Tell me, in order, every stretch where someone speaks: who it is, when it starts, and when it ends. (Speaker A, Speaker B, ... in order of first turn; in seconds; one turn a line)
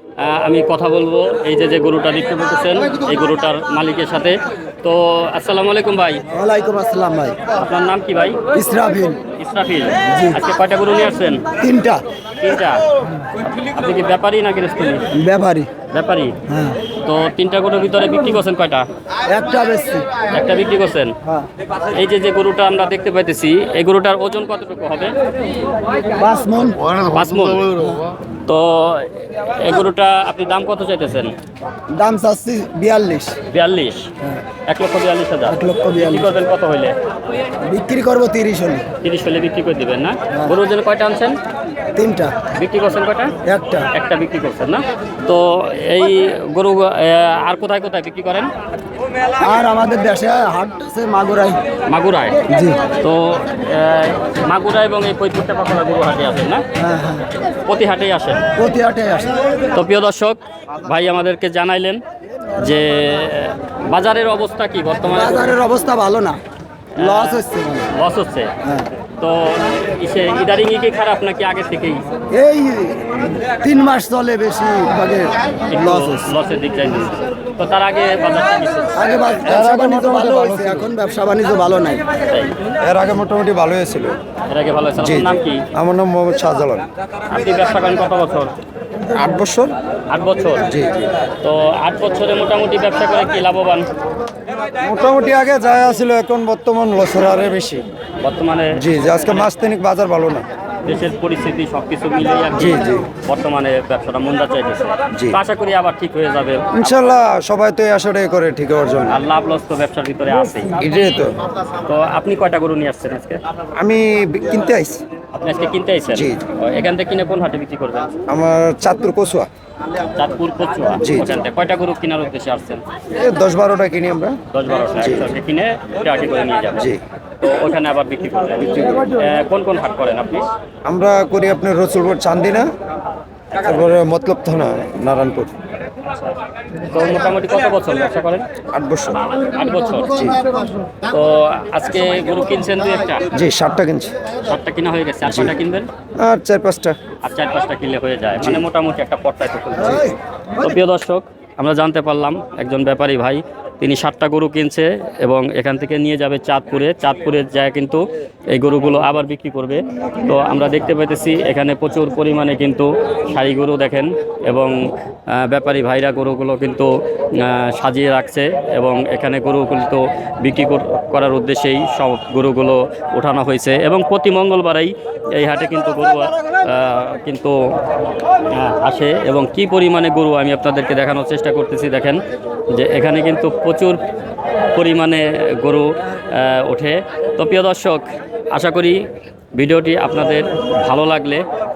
Speaker A: 0.2-6.2
Speaker B: 6.3-7.4
Speaker A: 7.5-8.4
Speaker B: 8.5-9.2
Speaker A: 9.4-11.4
Speaker B: 10.0-10.4
Speaker B: 11.6-12.0
Speaker A: 12.4-12.8
Speaker A: 13.4-15.0
Speaker B: 15.1-15.7
Speaker A: 15.9-16.4
Speaker B: 16.5-16.8
Speaker A: 17.0-18.9
Speaker B: 19.3-20.2
Speaker A: 20.3-21.2
Speaker A: 21.9-25.1
Speaker B: 26.2-27.0
Speaker A: 27.0-27.7
Speaker B: 27.7-28.1
Speaker A: 28.3-31.4
Speaker B: 31.9-33.4
Speaker A: 33.5-34.1
Speaker A: 34.7-37.0
Speaker B: 35.5-36.4
Speaker B: 37.6-38.9
Speaker A: 39.0-41.4
Speaker B: 42.0-42.5
Speaker A: 42.5-43.3
Speaker B: 43.4-43.9
Speaker A: 43.9-48.5
Speaker B: 49.4-51.6
Speaker A: 51.9-52.4
Speaker B: 52.5-52.8
Speaker A: 53.0-56.6
Speaker B: 56.8-57.3
Speaker A: 57.6-58.5
Speaker B: 58.5-59.4
Speaker A: 59.7-62.0
Speaker A: 62.6-65.6
Speaker B: 65.1-66.4
Speaker A: 67.0-68.5
Speaker B: 67.0-67.9
Speaker B: 68.6-68.9
Speaker A: 69.2-72.0
Speaker B: 72.3-76.3
Speaker A: 75.7-79.0
Speaker B: 78.9-82.0
Speaker C: 79.5-80.9
Speaker A: 82.3-82.6
Speaker C: 82.8-84.2
Speaker A: 84.5-85.7
Speaker C: 85.0-86.9
Speaker A: 87.3-88.5
Speaker C: 89.1-89.8
Speaker A: 90.1-90.7
Speaker C: 90.7-91.1
Speaker A: 91.4-93.9
Speaker C: 94.8-97.8
Speaker A: 98.2-98.8
Speaker C: 98.7-100.5
Speaker A: 100.8-106.9
Speaker C: 102.6-103.1
Speaker C: 105.1-105.4
Speaker C: 106.7-109.2
Speaker A: 109.1-110.8
Speaker C: 110.8-111.3
Speaker A: 111.8-113.4
Speaker C: 113.8-115.0
Speaker A: 115.3-118.1
Speaker C: 116.1-116.5
Speaker C: 118.3-119.5
Speaker A: 120.2-122.8
Speaker C: 121.0-121.4
Speaker C: 123.1-124.4
Speaker A: 124.5-130.4
Speaker C: 125.0-125.3
Speaker C: 128.6-129.2
Speaker C: 130.8-132.7
Speaker C: 133.5-135.5
Speaker A: 136.9-138.5
Speaker C: 138.7-139.2
Speaker A: 139.3-140.3
Speaker A: 141.1-143.2
Speaker C: 143.3-144.1
Speaker A: 144.5-145.9
Speaker C: 145.2-145.5
Speaker C: 146.2-147.0
Speaker A: 147.2-164.8
Speaker A: 165.3-177.6
Speaker A: 178.5-182.2
Speaker A: 182.7-184.0
Speaker A: 184.7-189.0
Speaker A: 189.6-191.4